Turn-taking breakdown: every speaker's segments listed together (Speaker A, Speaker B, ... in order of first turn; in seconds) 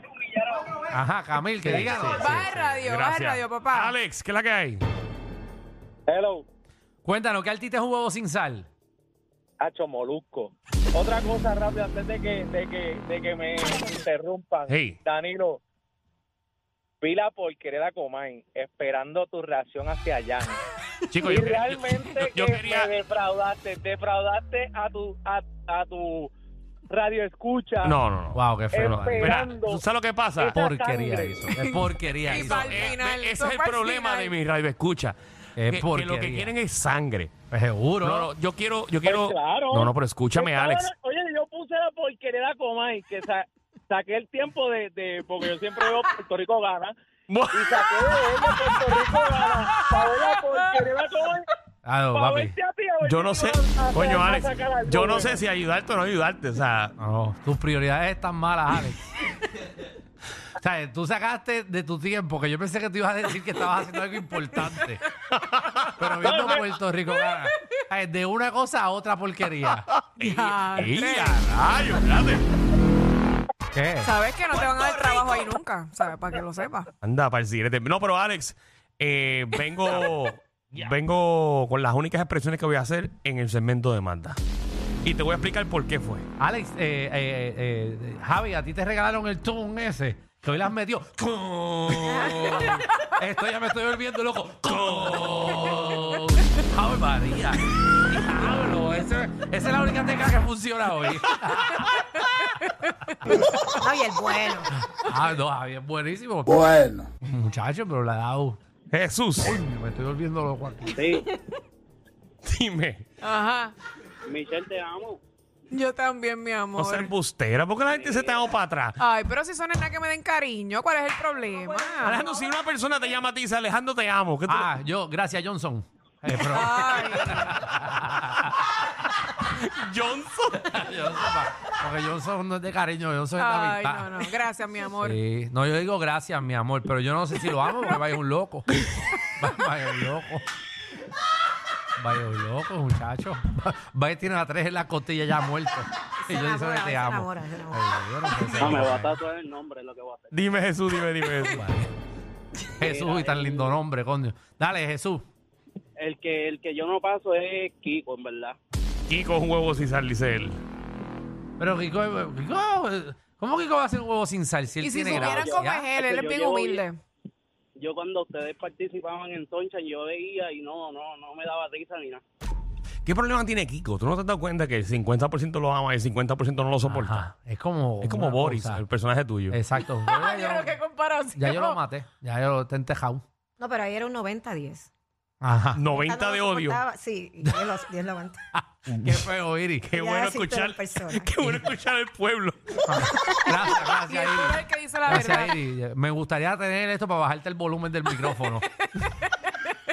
Speaker A: 0.4-0.7, 6.1-6.5, 9.6-15.6, 17.0-20.6, 21.2-26.3, 26.9-28.0, 28.7-29.8, 30.4-31.5, 39.0-46.9, 47.5-51.5, 52.1-55.4, 66.3-66.5
Speaker B: 0.9-2.3, 7.0-8.7, 28.3-29.6, 30.5-33.0, 35.6-36.5, 37.5-38.3, 51.9-52.5, 57.0-59.1, 60.6-65.0, 66.0-69.8, 73.7-74.1, 86.4-102.0, 104.8-108.6, 109.4-111.2, 124.5-128.5, 130.6-134.3, 134.9-140.5, 142.0-149.2, 151.4-151.9, 152.8-155.3, 161.6-165.9, 176.8-178.8, 179.5-180.8, 181.3-183.2, 185.4-185.8, 188.5-189.9, 192.9-198.7
Speaker C: 1.6-4.8, 14.7-15.0, 21.1-22.9, 27.8-30.6, 32.2-37.3, 38.0-40.9, 47.3-49.1, 53.0-56.9, 65.3-66.5, 70.0-72.5, 77.0-84.4, 85.0-86.3, 94.7-96.0, 108.9-109.6, 112.4-113.0, 116.8-119.0, 122.0-124.7, 129.4-130.8, 150.3-151.7, 159.1-160.6, 173.1-177.2, 178.0-179.6, 185.8-186.8, 188.9-189.2, 189.9-192.9
Speaker D: 1.9-4.0, 31.6-34.3, 70.2-71.4, 74.0-76.9, 102.4-102.7, 113.2-113.8, 115.7-117.1, 119.0-122.3, 126.3-127.6, 133.4-135.2, 164.8-167.0, 180.0-181.8, 194.0-195.6, 199.0-199.5
Speaker E: 41.5-43.4, 44.1-44.6, 110.9-111.3, 114.3-115.2, 117.9-118.5, 148.6-150.4, 152.8-153.8, 156.0-158.6, 165.0-166.8, 167.8-172.2
Speaker F: 103.4-104.7, 146.2-148.9, 183.6-184.9, 185.9-188.4, 189.9-191.3